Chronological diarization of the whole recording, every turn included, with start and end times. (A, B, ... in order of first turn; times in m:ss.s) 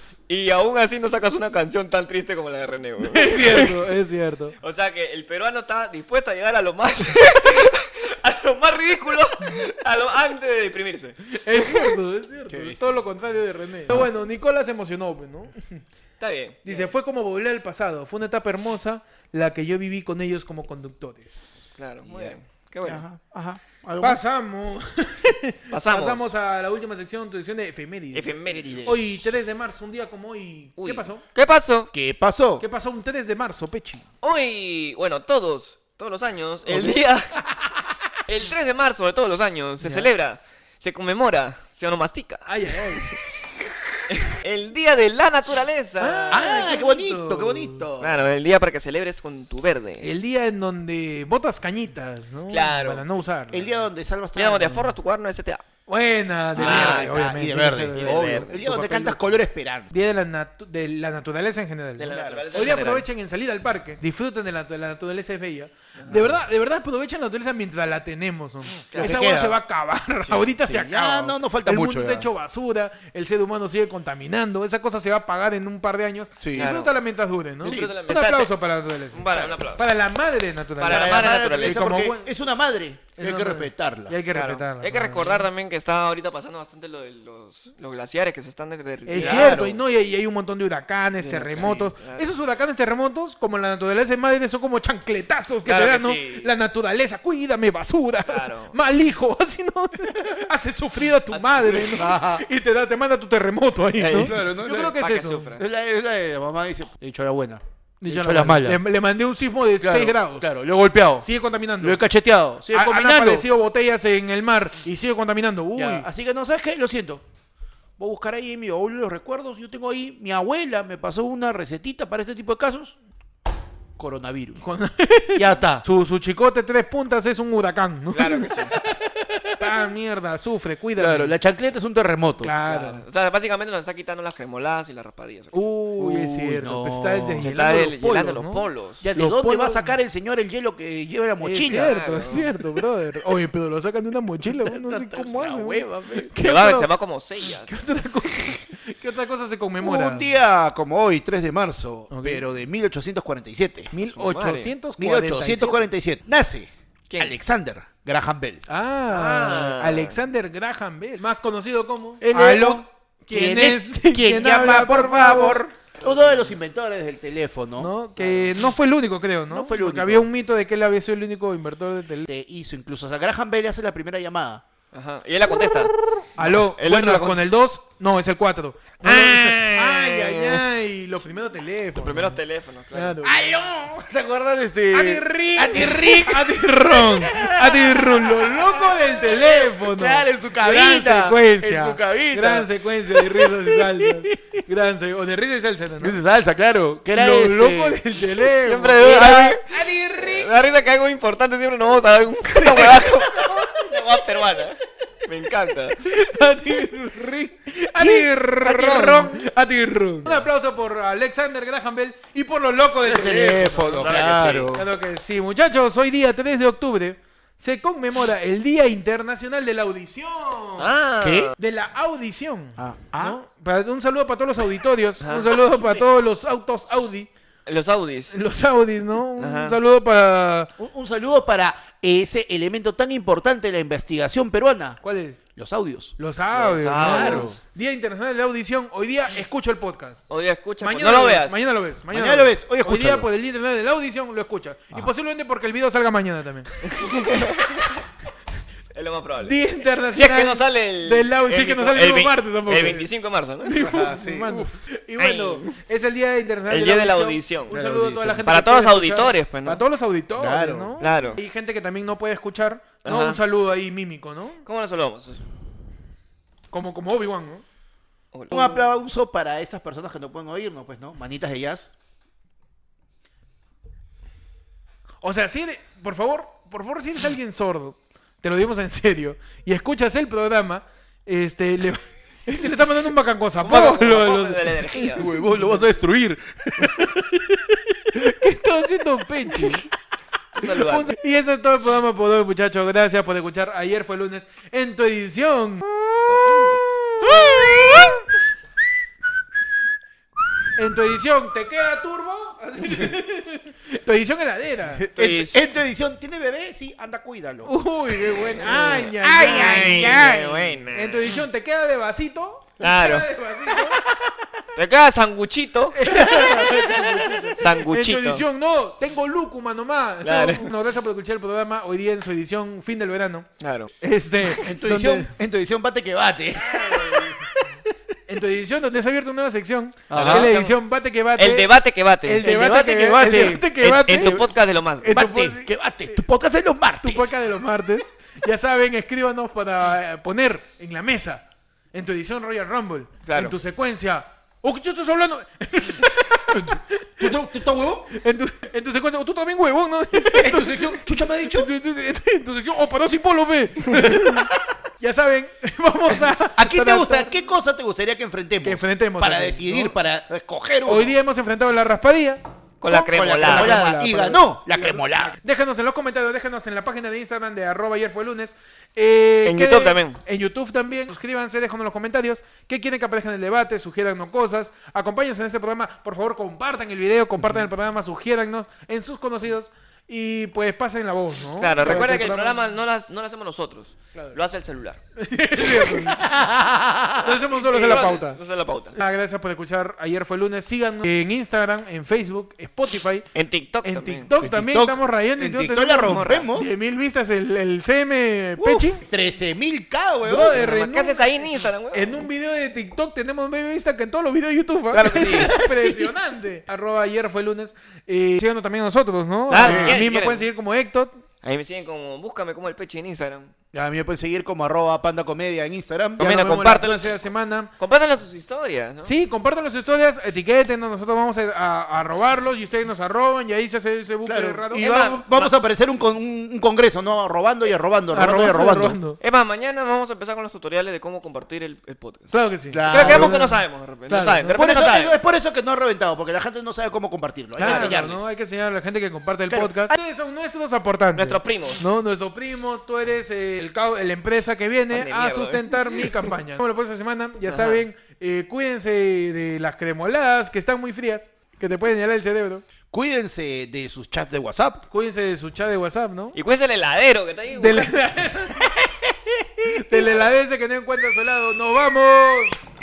0:00.3-0:03.9 A
0:03.0-0:04.5 B
0:04.6-0:12.0 A
0:11.4-0:15.8 B
0:12.5-0:13.0 C
0:16.2-0:16.9 A
0:16.6-0:21.6 B
0:21.8-0:23.0 A
0:22.0-0:24.2 C
0:24.0-0:31.2 B
0:25.7-0:26.3 A
0:28.1-0:28.9 A
0:28.5-0:29.3 C
0:30.8-0:31.0 C
0:31.3-0:31.9 A
0:31.9-0:32.6 C
0:32.6-0:34.0 B
0:34.2-0:37.4 A
0:36.7-0:37.6 C
0:38.2-0:43.3 A
0:39.8-0:40.1 B
0:42.5-0:43.2 B
0:44.1-0:46.5 A
0:46.0-0:47.8 B
0:46.3-0:48.1 C
0:48.0-0:50.1 A
0:50.0-0:53.8 B
0:52.5-0:53.0 A
0:53.5-0:54.9 C
0:54.3-0:55.6 A
0:55.9-0:59.3 B
0:56.5-0:57.3 A
0:56.6-0:59.9 C
0:57.9-0:58.6 A
0:59.9-1:22.2 B
1:02.0-1:03.1 A
1:02.1-1:02.5 C
1:06.0-1:06.3 A
1:08.9-1:09.2 A
1:08.9-1:09.6 C
1:10.6-1:12.3 C
1:16.4-1:16.8 C
1:16.6-1:16.9 A
1:17.6-1:18.5 A
1:17.6-1:18.0 C
1:19.1-1:19.9 A
1:20.8-1:22.0 A
1:20.8-1:24.2 C
1:23.2-1:25.4 B
1:24.3-1:29.7 A
1:29.0-1:45.5 B
1:29.1-1:29.8 C
1:31.2-1:32.3 A
1:35.6-1:36.5 A
1:38.3-1:38.7 A
1:41.3-1:42.0 A
1:41.8-1:42.4 C
1:44.0-1:45.6 A
1:44.1-1:45.0 C
1:45.6-1:48.8 C
1:48.0-1:50.5 B
1:49.8-1:51.3 C
1:51.2-1:52.0 B
1:51.8-1:53.5 C
1:52.7-1:56.1 B
1:55.8-1:57.2 C
1:58.0-2:03.0 C
2:04.0-2:04.6 C
2:04.6-2:08.6 B
2:05.3-2:05.8 C
2:08.1-2:08.8 A
2:09.6-2:11.3 B
2:11.0-2:12.5 C
2:12.4-2:13.0 B
2:12.6-2:16.6 A
2:15.5-2:19.9 B
2:16.6-2:17.4 C
2:17.4-2:19.0 A
2:19.0-2:21.9 C
2:21.4-2:26.9 B
2:21.8-2:22.5 A
2:24.4-2:26.3 C
2:26.3-2:27.8 A
2:27.5-2:30.3 B
2:29.8-2:33.9 C
2:32.1-2:32.4 B
2:33.9-2:35.8 B
2:34.0-2:34.7 A
2:35.0-2:38.6 C
2:37.1-2:37.4 A
2:38.7-2:45.6 B
2:39.1-2:40.2 A
2:42.2-2:48.3 C
2:46.0-2:46.5 A
2:47.8-2:52.3 B
2:49.5-2:50.3 C
2:52.2-2:54.6 C
2:54.9-2:57.4 A
2:56.4-3:02.4 B
2:59.0-3:00.6 A
3:02.0-3:03.2 A
3:02.9-3:03.5 B
3:03.2-3:14.5 C
3:04.9-3:16.2 B
3:16.0-3:18.0 C
3:17.1-3:19.6 B
3:18.3-3:19.6 A
3:19.0-3:20.5 C
3:20.1-3:26.0 A
3:22.6-3:23.0 C
3:26.0-3:34.1 B
3:28.0-3:29.4 C
3:33.0-3:34.9 C
3:33.9-3:34.8 A
3:34.7-3:40.9 B
3:40.8-3:41.5 A
3:41.2-3:41.5 C
3:41.6-3:47.3 B
3:42.8-3:43.4 C
3:45.2-3:45.5 A
3:47.6-3:48.4 A
3:48.3-3:50.7 B
3:49.4-3:49.8 A
3:50.8-3:55.0 C
3:55.0-3:55.4 B
3:55.6-3:56.1 C
3:56.2-4:00.2 B
3:56.5-3:57.6 A
3:57.0-3:57.6 C
4:00.3-4:01.6 A
4:00.8-4:06.7 B
4:02.1-4:03.3 C
4:06.8-4:08.0 A
4:08.9-4:09.6 A
4:09.4-4:13.1 B
4:10.1-4:13.8 A
4:13.6-4:24.6 B
4:13.8-4:14.7 C
4:15.2-4:15.8 A
4:16.7-4:17.8 A
4:17.7-4:18.4 C
4:18.4-4:19.8 A
4:20.4-4:20.9 C
4:21.0-4:21.4 A
4:23.0-4:23.4 A
4:24.6-4:25.4 A
4:26.7-4:27.6 B
4:28.3-4:28.8 A
4:28.5-4:31.9 C
4:35.2-4:45.8 B
4:43.6-4:45.3 A
4:45.1-4:47.1 C
4:46.8-4:49.8 B
4:50.5-4:51.1 A
4:50.6-4:55.9 B
4:56.3-4:56.8 A
4:57.2-4:58.2 B
5:00.8-5:05.0 B
5:02.8-5:03.2 C
5:04.9-5:10.5 C
5:05.1-5:05.6 A
5:07.6-5:14.0 B
5:08.6-5:11.4 A
5:12.8-5:13.3 A
5:14.1-5:14.5 C
5:14.8-5:16.0 A
5:15.9-5:23.5 B
5:16.1-5:17.5 C
5:17.6-5:18.4 A
5:20.2-5:20.7 A
5:23.6-5:23.9 A
5:24.0-5:25.3 B
5:24.6-5:27.5 C
5:26.6-5:27.4 B
5:28.3-5:31.7 B
5:30.1-5:30.5 C
5:30.1-5:30.8 A
5:31.4-5:32.5 A
5:32.2-5:34.5 B
5:32.4-5:34.4 C
5:33.7-5:35.2 A
5:35.0-5:36.2 B
5:35.1-5:37.3 C
5:37.0-5:47.4 B
5:43.2-5:43.5 A
5:46.5-5:48.1 C
5:48.1-5:57.4 B
5:50.3-5:51.7 C
5:56.1-6:01.2 C
5:58.6-6:00.0 B
6:00.8-6:22.6 B
6:02.8-6:04.1 A
6:03.1-6:05.3 C
6:09.4-6:10.2 A
6:21.6-6:25.0 A
6:25.2-6:26.4 B
6:26.0-6:27.4 C
6:27.2-6:28.4 B
6:27.7-6:29.0 A
6:28.9-6:33.3 B
6:33.3-6:34.3 A
6:33.8-6:39.0 B
6:34.3-6:36.7 C
6:36.0-6:36.5 A
6:38.6-6:40.6 C
6:40.2-6:51.2 B
6:40.5-6:42.2 A
6:44.9-6:45.9 A
6:49.5-6:50.4 A
6:49.6-6:50.0 C
6:51.4-6:53.5 A
6:53.7-6:56.2 C
6:56.2-6:57.2 A
6:56.2-6:57.7 B
6:57.8-6:59.1 A
6:59.0-7:04.9 B
7:04.2-7:09.0 C
7:04.8-7:05.5 A
7:08.1-7:09.2 B
7:09.2-7:12.3 A
7:12.3-7:14.6 B
7:12.7-7:13.4 C
7:12.9-7:15.2 A
7:14.5-7:18.2 C
7:17.6-7:32.6 B
7:17.6-7:18.1 A
7:19.5-7:19.9 C
7:21.1-7:21.8 A
7:24.9-7:26.1 A
7:27.4-7:27.8 A
7:32.9-7:34.8 C
7:34.9-7:36.4 B
7:36.3-7:38.1 A
7:37.6-7:38.7 B
7:39.6-7:42.6 B